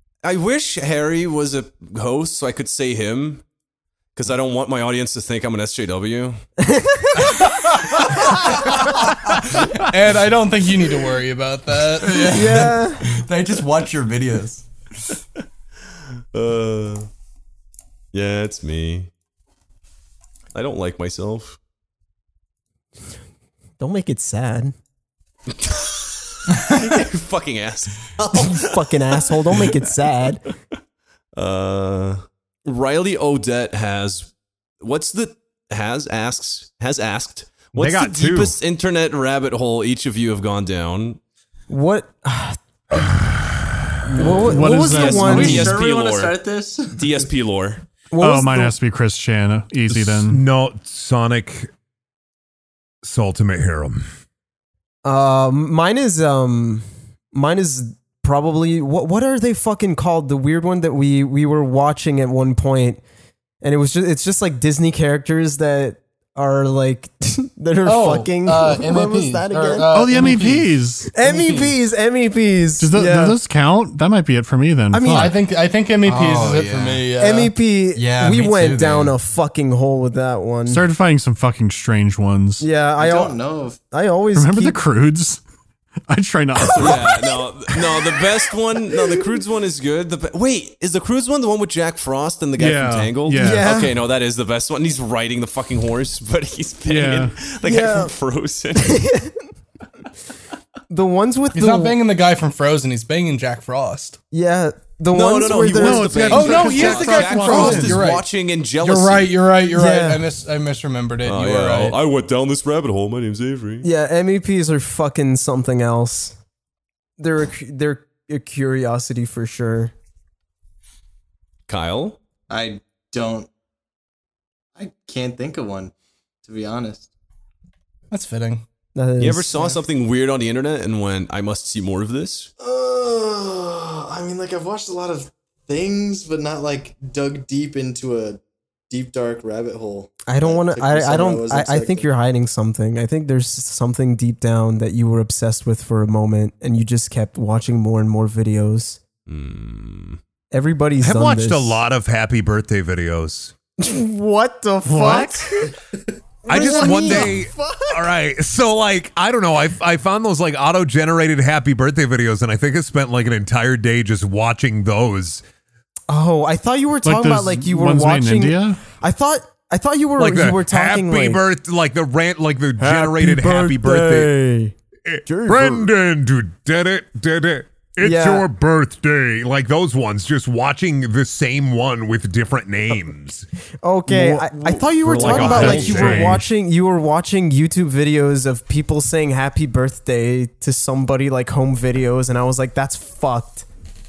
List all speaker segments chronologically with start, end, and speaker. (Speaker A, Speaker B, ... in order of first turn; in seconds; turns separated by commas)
Speaker A: 0.2-3.4, Speaker A: 4.1-6.4, Speaker B: 6.6-7.4, Speaker C: 9.8-12.4, Speaker D: 12.0-14.7, Speaker B: 12.3-13.1, Speaker A: 16.3-17.1, Speaker A: 18.1-19.1, Speaker A: 20.5-21.6, Speaker B: 23.8-24.7, Speaker A: 25.6-28.6, Speaker B: 28.3-30.4, Speaker A: 31.4-41.2, Speaker E: 37.7-38.6, Speaker B: 41.7-43.2, Speaker B: 44.1-45.8, Speaker F: 44.3-45.7, Speaker A: 44.9-46.4, Speaker G: 45.0-47.0, Speaker A: 46.9-47.8, Speaker B: 48.1-48.7, Speaker F: 48.2-50.4, Speaker E: 49.9-51.7, Speaker E: 53.0-54.0, Speaker B: 55.0-63.0, Speaker B: 63.6-70.3, Speaker C: 67.8-71.7, Speaker F: 69.9-71.1, Speaker B: 71.1-73.4, Speaker F: 72.8-75.4, Speaker B: 74.9-75.3, Speaker C: 75.1-77.5, Speaker D: 76.0-77.1, Speaker B: 77.2-80.8, Speaker D: 77.9-79.1, Speaker F: 80.7-82.7, Speaker B: 82.6-83.4, Speaker G: 83.0-83.8, Speaker B: 83.9-84.8, Speaker F: 84.3-85.4, Speaker F: 86.1-87.1, Speaker A: 86.8-99.1, Speaker F: 92.6-93.7, Speaker B: 93.4-94.0, Speaker F: 96.8-97.3, Speaker B: 97.6-98.1, Speaker B: 98.8-99.4, Speaker B: 100.9-102.0, Speaker C: 101.5-104.2, Speaker B: 104.3-106.6, Speaker A: 105.1-109.3, Speaker F: 105.7-108.0, Speaker C: 106.3-108.2, Speaker C: 108.8-112.0, Speaker B: 109.7-110.2, Speaker A: 111.2-113.9, Speaker B: 113.8-116.3, Speaker B: 117.2-119.9, Speaker A: 121.7-122.2, Speaker G: 122.5-123.5, Speaker G: 124.8-125.9, Speaker G: 126.4-127.1, Speaker C: 128.1-128.7, Speaker B: 128.9-129.6, Speaker A: 129.2-132.5, Speaker G: 132.6-142.1, Speaker B: 140.3-149.0, Speaker A: 149.3-150.2, Speaker B: 150.5-151.8, Speaker E: 151.0-153.5, Speaker B: 153.8-155.7, Speaker F: 154.8-155.5, Speaker B: 156.4-158.1, Speaker E: 156.5-165.4, Speaker B: 166.1-171.4, Speaker F: 167.0-168.8, Speaker E: 170.2-174.4, Speaker B: 172.8-174.7, Speaker E: 175.0-183.5, Speaker B: 175.2-175.9, Speaker B: 178.0-178.5, Speaker B: 183.8-193.6, Speaker E: 184.1-186.4, Speaker F: 185.2-186.4, Speaker A: 185.4-185.8